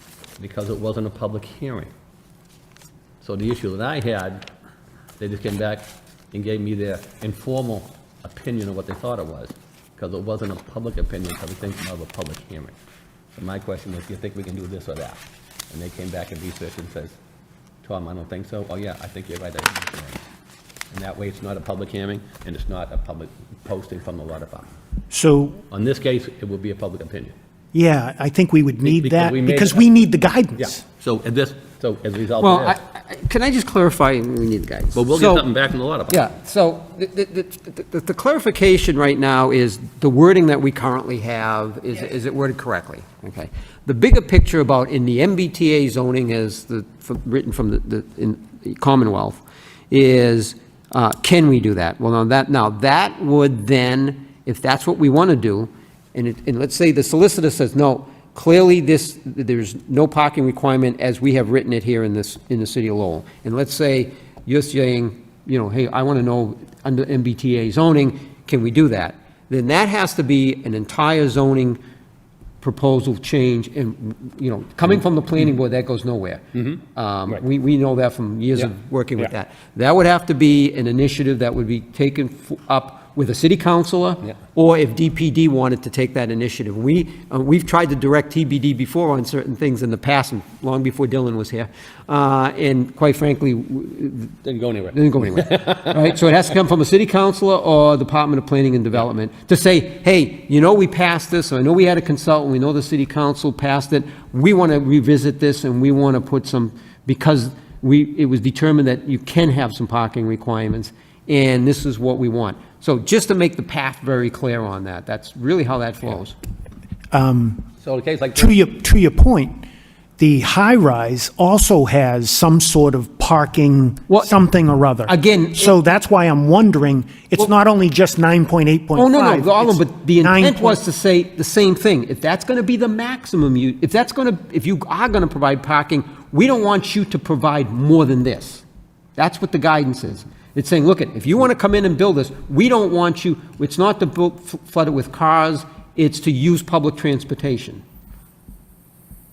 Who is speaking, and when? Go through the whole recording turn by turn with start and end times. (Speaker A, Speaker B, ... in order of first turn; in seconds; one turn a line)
Speaker A: 0.4-1.9
Speaker A: 3.2-4.4
Speaker A: 5.2-12.7
Speaker A: 13.3-17.2
Speaker A: 17.8-20.2
Speaker A: 20.9-24.7
Speaker B: 25.1-25.6
Speaker A: 25.7-27.3
Speaker B: 27.7-30.8
Speaker A: 28.8-29.9
Speaker A: 30.6-32.8
Speaker C: 32.4-35.5
Speaker A: 34.9-36.3
Speaker C: 36.1-71.8
Speaker C: 72.6-94.3
Speaker A: 76.5-77.4
Speaker A: 78.5-79.3
Speaker A: 94.4-95.9
Speaker C: 94.9-116.3
Speaker B: 117.1-117.6
Speaker A: 117.8-118.5
Speaker B: 118.3-119.6
Speaker B: 120.2-130.8
Speaker C: 125.0-125.8
Speaker C: 128.9-138.6
Speaker C: 139.2-147.8